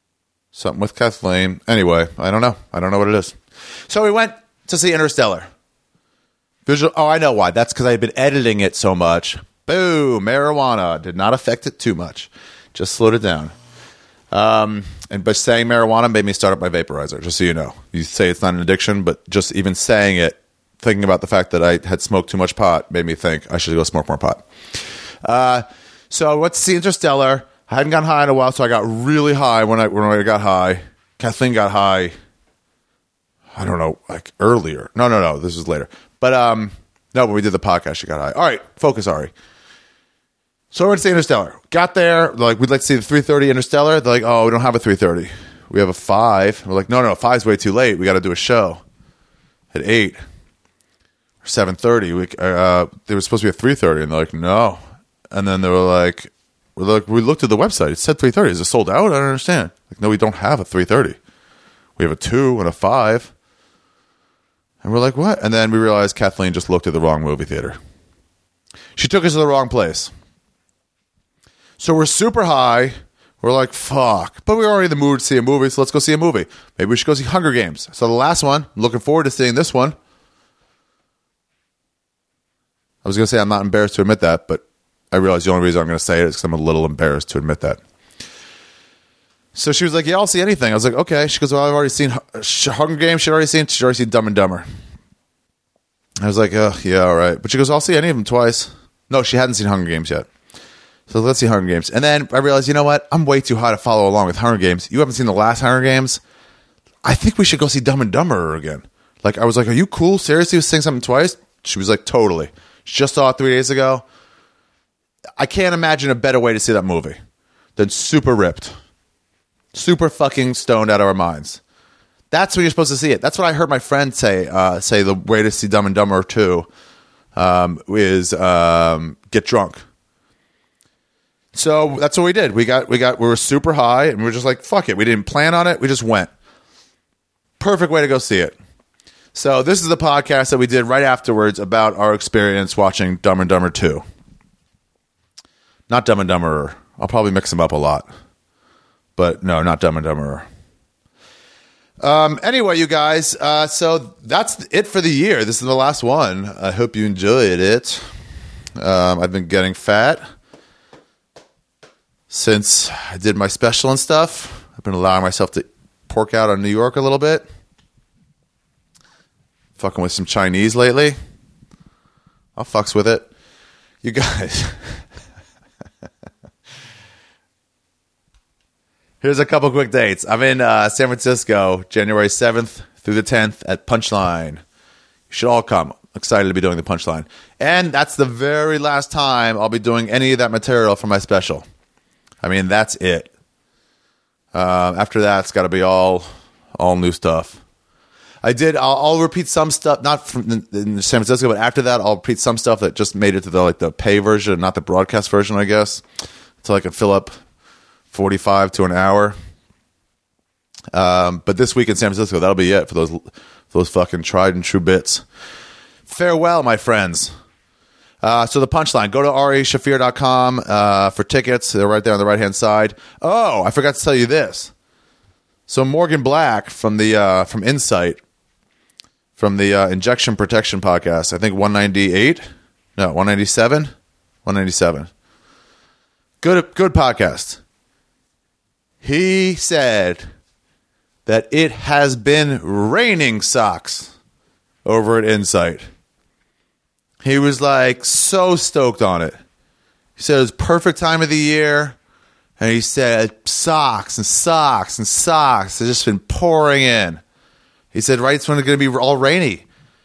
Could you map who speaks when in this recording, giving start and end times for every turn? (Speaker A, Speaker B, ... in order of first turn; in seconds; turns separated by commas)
Speaker A: 0.5-3.4, Speaker A: 3.9-5.5, Speaker A: 6.7-13.5, Speaker A: 14.3-24.5, Speaker A: 25.2-32.1, Speaker A: 33.5-39.3, Speaker A: 40.7-48.8, Speaker A: 49.7-50.2, Speaker A: 51.4-61.2, Speaker A: 62.0-63.3, Speaker A: 64.8-67.8, Speaker A: 69.0-70.1, Speaker A: 71.8-80.0, Speaker A: 83.0-87.8, Speaker A: 89.5-94.7, Speaker A: 96.2-100.3, Speaker A: 101.1-106.2, Speaker A: 107.0-114.0, Speaker A: 115.4-117.2, Speaker A: 117.8-118.8, Speaker A: 119.7-121.6, Speaker A: 122.3-126.7, Speaker A: 127.3-129.8, Speaker A: 131.5-136.3, Speaker A: 137.6-138.6, Speaker A: 139.3-144.0, Speaker A: 145.9-148.1, Speaker A: 149.2-150.5, Speaker A: 152.0-158.0, Speaker A: 158.8-160.2, Speaker A: 162.3-167.5, Speaker A: 169.8-171.2, Speaker A: 172.6-173.3, Speaker A: 174.0-175.0, Speaker A: 179.2-184.6, Speaker A: 185.3-191.7, Speaker A: 192.4-193.3, Speaker A: 194.5-197.6, Speaker A: 198.4-206.0, Speaker A: 206.6-207.3, Speaker A: 208.1-209.4, Speaker A: 210.9-215.2, Speaker A: 216.1-217.3, Speaker A: 218.2-224.7, Speaker A: 225.7-228.2, Speaker A: 229.4-232.4, Speaker A: 233.0-233.9, Speaker A: 234.4-235.1, Speaker A: 236.4-237.6, Speaker A: 239.0-240.3, Speaker A: 241.3-244.1, Speaker A: 244.8-245.9, Speaker A: 247.2-249.4, Speaker A: 250.2-252.0, Speaker A: 252.6-257.2, Speaker A: 257.9-259.6